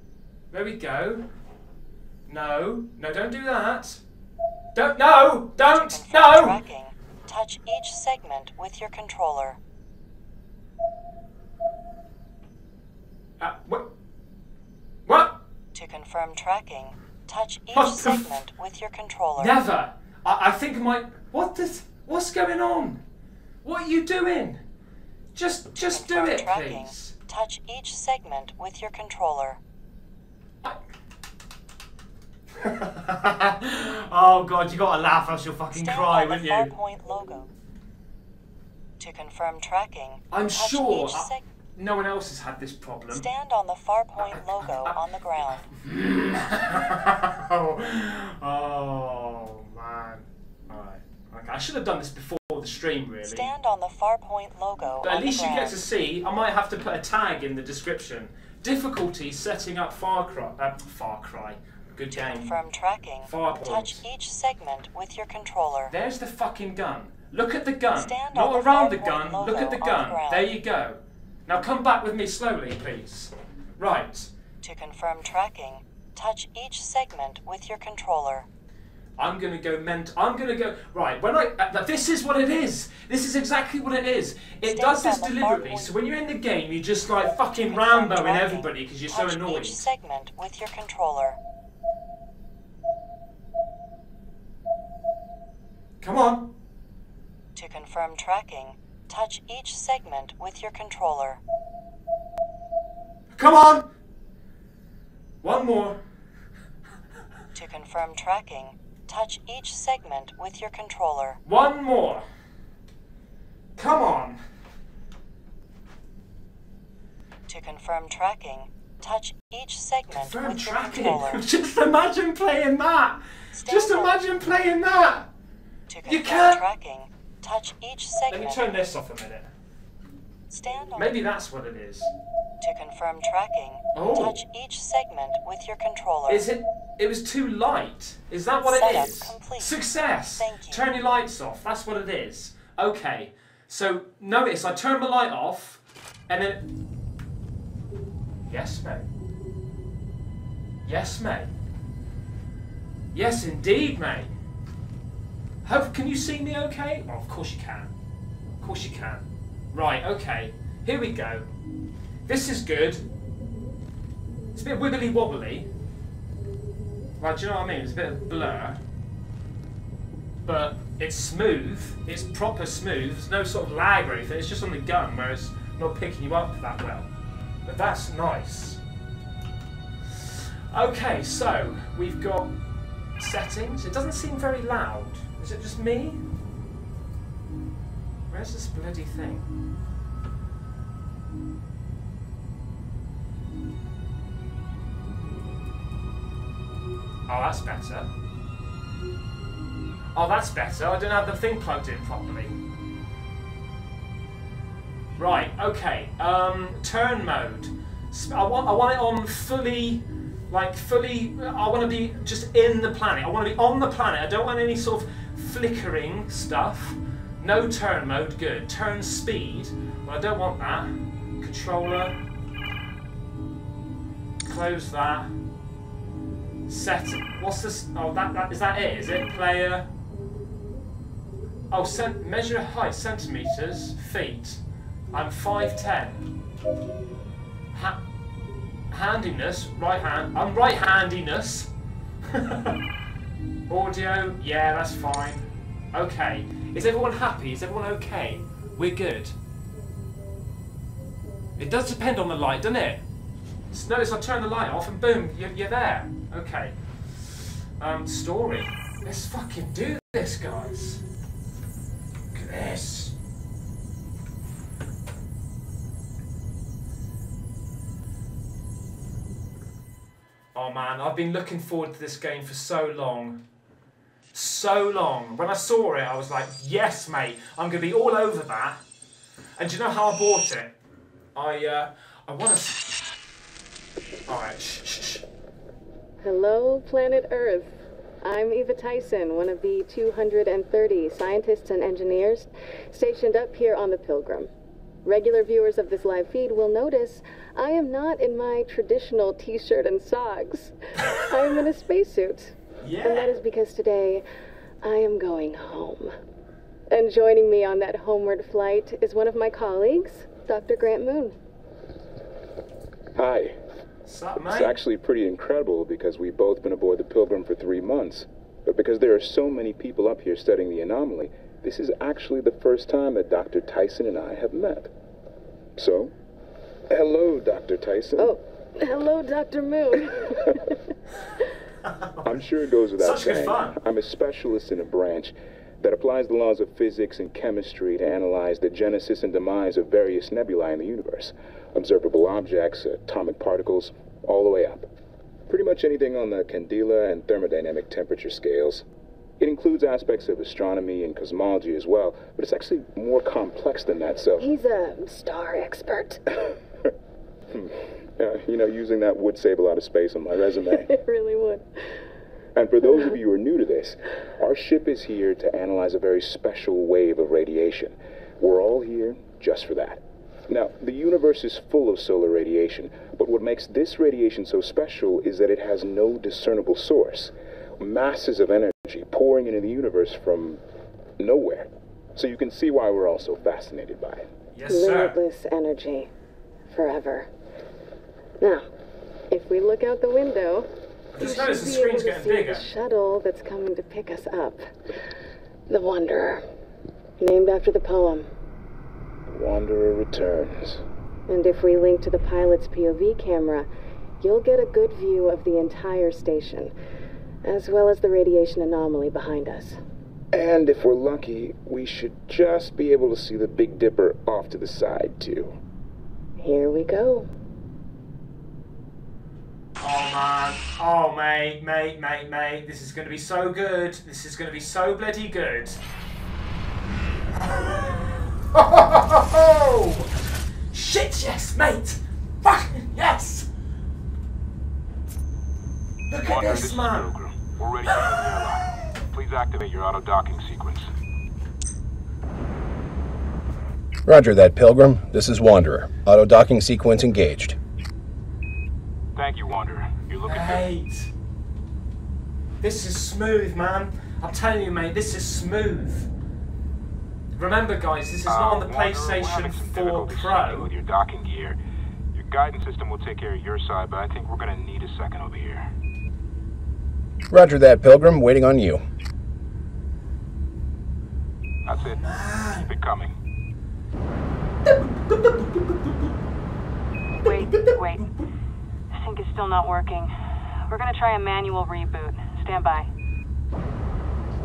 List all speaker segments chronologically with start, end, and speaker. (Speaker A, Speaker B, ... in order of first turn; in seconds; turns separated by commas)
Speaker A: 0.5-1.3, Speaker A: 2.3-4.0, Speaker A: 4.8-6.6, Speaker B: 5.7-9.6, Speaker A: 13.4-13.9, Speaker A: 15.1-15.4, Speaker B: 15.7-19.6, Speaker A: 17.7-18.3, Speaker A: 19.4-23.0, Speaker A: 23.6-24.6, Speaker A: 25.4-27.1, Speaker B: 25.8-29.6, Speaker A: 32.6-36.7, Speaker B: 35.7-37.5, Speaker B: 39.0-41.5, Speaker A: 40.3-43.3, Speaker B: 43.1-45.7, Speaker A: 44.6-45.0, Speaker A: 45.7-53.5, Speaker B: 53.2-55.8, Speaker A: 55.0-62.5, Speaker B: 62.1-65.9, Speaker A: 63.2-64.0, Speaker A: 65.9-74.3, Speaker B: 68.0-70.5, Speaker B: 74.6-78.5, Speaker A: 79.2-89.8, Speaker B: 84.6-85.9, Speaker B: 87.5-91.4, Speaker A: 96.0-96.5, Speaker B: 97.6-101.4, Speaker A: 103.3-103.9, Speaker A: 105.4-106.0, Speaker B: 107.5-111.4, Speaker A: 111.5-112.2, Speaker A: 113.8-114.4, Speaker B: 117.5-121.4, Speaker A: 120.1-125.3, Speaker B: 123.5-124.2, Speaker B: 125.9-128.7, Speaker A: 126.0-126.7, Speaker A: 128.3-129.5, Speaker B: 130.5-131.2, Speaker A: 131.0-132.1, Speaker B: 132.6-136.5, Speaker A: 133.9-134.4, Speaker A: 136.3-146.7, Speaker B: 138.6-140.9, Speaker A: 148.5-149.1, Speaker A: 150.8-151.5, Speaker A: 153.1-154.3, Speaker A: 155.6-157.9, Speaker A: 158.6-161.5, Speaker A: 162.3-163.1, Speaker A: 164.5-165.7, Speaker A: 167.2-168.8, Speaker A: 170.4-177.1, Speaker A: 177.7-178.8, Speaker A: 180.7-182.6, Speaker A: 183.2-186.2, Speaker A: 188.3-189.5, Speaker A: 197.3-198.1, Speaker A: 200.1-202.6, Speaker A: 205.2-222.2, Speaker A: 224.4-225.3, Speaker A: 226.7-229.9, Speaker A: 231.7-234.6, Speaker A: 235.1-236.3, Speaker A: 237.7-238.0, Speaker A: 238.9-241.7, Speaker A: 242.3-242.8, Speaker A: 243.7-249.3, Speaker A: 251.6-253.0, Speaker A: 253.7-256.8, Speaker A: 257.8-261.0, Speaker A: 262.3-263.1, Speaker A: 270.5-273.4, Speaker A: 274.3-278.8, Speaker A: 279.6-280.8, Speaker A: 281.4-283.0, Speaker A: 284.3-285.2, Speaker C: 286.2-294.5, Speaker C: 295.1-304.2, Speaker A: 302.8-303.3, Speaker C: 304.8-306.1, Speaker C: 306.9-311.4, Speaker D: 313.2-313.6, Speaker A: 314.1-314.8, Speaker D: 314.5-324.9, Speaker D: 325.8-326.1, Speaker D: 326.9-328.3, Speaker C: 328.2-330.6, Speaker D: 332.2-344.9, Speaker A: 333.0-333.8, Speaker D: 345.5-348.9, Speaker D: 349.4-354.5, Speaker C: 354.4-356.5, Speaker D: 357.5-360.9, Speaker C: 360.7-361.7, Speaker D: 362.6-380.6, Speaker D: 381.2-384.3, Speaker A: 384.5-385.2, Speaker C: 384.7-386.1, Speaker C: 386.7-387.3, Speaker C: 388.4-388.7, Speaker C: 389.3-394.7, Speaker A: 391.1-392.6, Speaker C: 395.7-396.5, Speaker C: 397.2-398.3, Speaker D: 399.3-400.8, Speaker C: 401.3-403.7, Speaker C: 404.2-406.7, Speaker C: 407.4-409.8, Speaker D: 410.3-415.6, Speaker C: 416.4-417.3, Speaker A: 419.8-425.8, Speaker A: 427.5-430.1, Speaker A: 430.7-433.5, Speaker A: 436.1-437.1, Speaker E: 436.2-440.9, Speaker A: 437.9-438.2, Speaker F: 444.1-447.6, Speaker E: 449.2-450.7, Speaker A: 450.3-451.1, Speaker A: 452.6-456.1, Speaker A: 457.3-460.7, Speaker E: 458.3-461.6, Speaker E: 462.1-465.7, Speaker F: 467.3-468.8, Speaker E: 471.6-473.2, Speaker A: 471.9-472.7, Speaker A: 474.6-476.1, Speaker A: 477.2-478.3, Speaker G: 477.2-478.1, Speaker G: 478.9-480.1, Speaker G: 480.7-482.9